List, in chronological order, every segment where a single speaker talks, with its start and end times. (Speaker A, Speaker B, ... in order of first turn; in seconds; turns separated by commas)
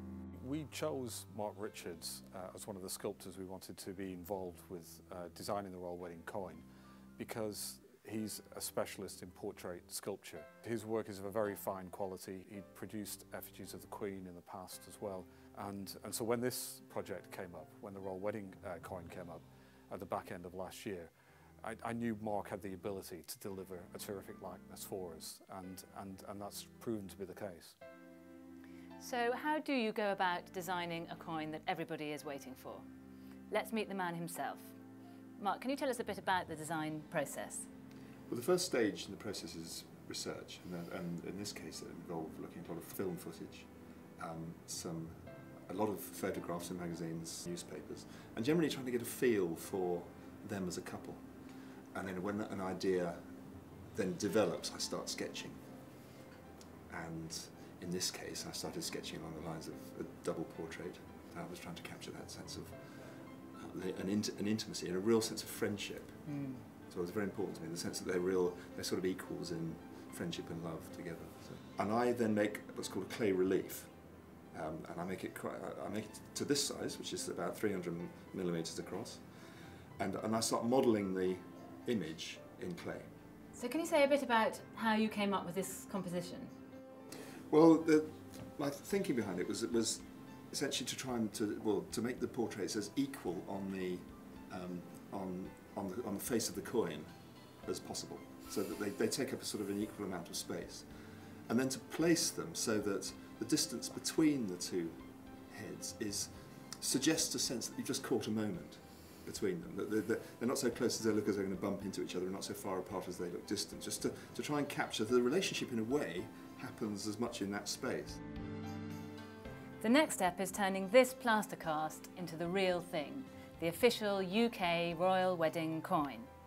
Speaker A: 0.4-6.7, Speaker A: 7.2-27.8, Speaker B: 29.0-32.8, Speaker B: 33.5-34.7, Speaker B: 35.4-37.7, Speaker C: 38.3-53.3, Speaker C: 53.9-55.6, Speaker C: 56.9-73.9, Speaker B: 66.3-66.7, Speaker C: 74.5-83.1, Speaker B: 83.5-86.5, Speaker C: 87.5-118.2, Speaker B: 119.8-126.3